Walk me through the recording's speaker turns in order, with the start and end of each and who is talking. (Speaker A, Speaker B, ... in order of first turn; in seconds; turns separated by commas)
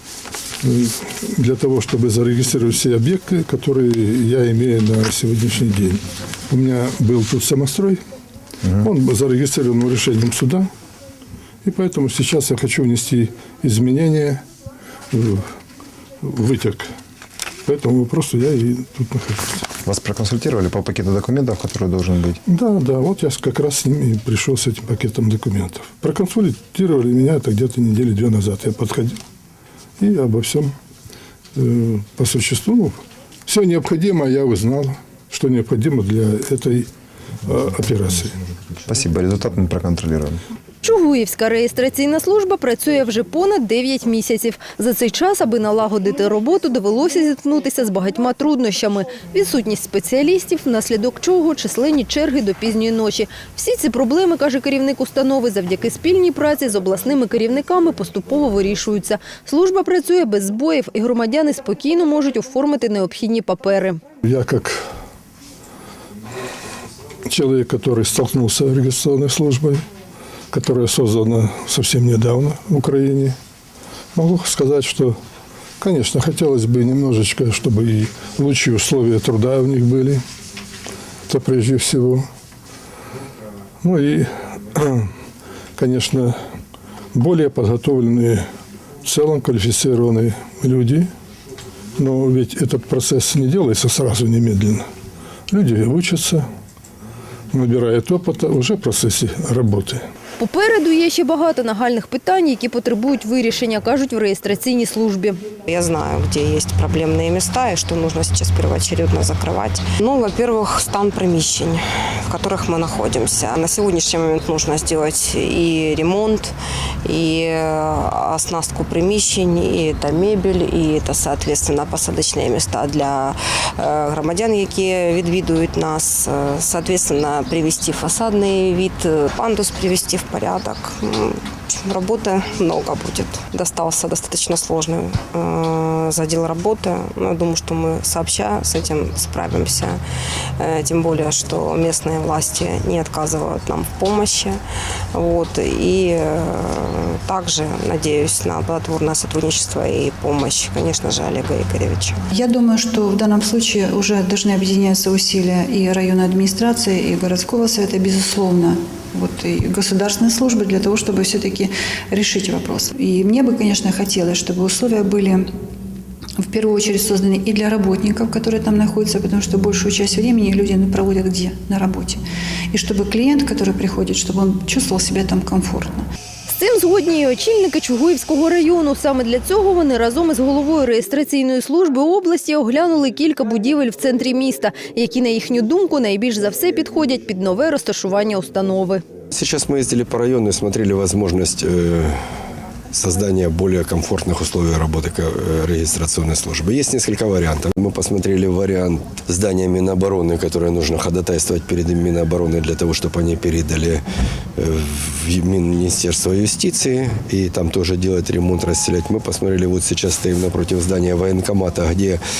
Speaker A: 0.6-8.0, Speaker A: 8.7-10.7, Speaker A: 11.6-14.4, Speaker A: 15.1-15.4, Speaker A: 16.2-16.9, Speaker A: 17.6-19.6, Speaker B: 19.8-22.4, Speaker A: 22.5-29.2, Speaker A: 30.0-30.7, Speaker A: 31.5-36.9, Speaker A: 37.5-38.3, Speaker B: 38.9-40.4, Speaker C: 40.8-64.0, Speaker A: 64.2-64.8, Speaker A: 67.3-69.8, Speaker A: 70.5-73.3, Speaker A: 74.1-75.2, Speaker A: 75.8-80.2, Speaker A: 81.3-82.3, Speaker A: 83.8-85.1, Speaker A: 85.8-86.3, Speaker A: 87.1-88.4, Speaker A: 89.0-91.1, Speaker A: 92.0-94.8, Speaker A: 95.5-96.5, Speaker A: 97.5-100.0, Speaker C: 100.4-105.4, Speaker D: 105.7-140.0, Speaker D: 140.6-144.6, Speaker D: 145.1-152.2, Speaker E: 152.3-165.5, Speaker E: 166.4-172.2, Speaker E: 172.7-176.1, Speaker C: 176.5-189.0, Speaker F: 189.3-192.2, Speaker F: 192.9-204.0, Speaker F: 204.6-212.2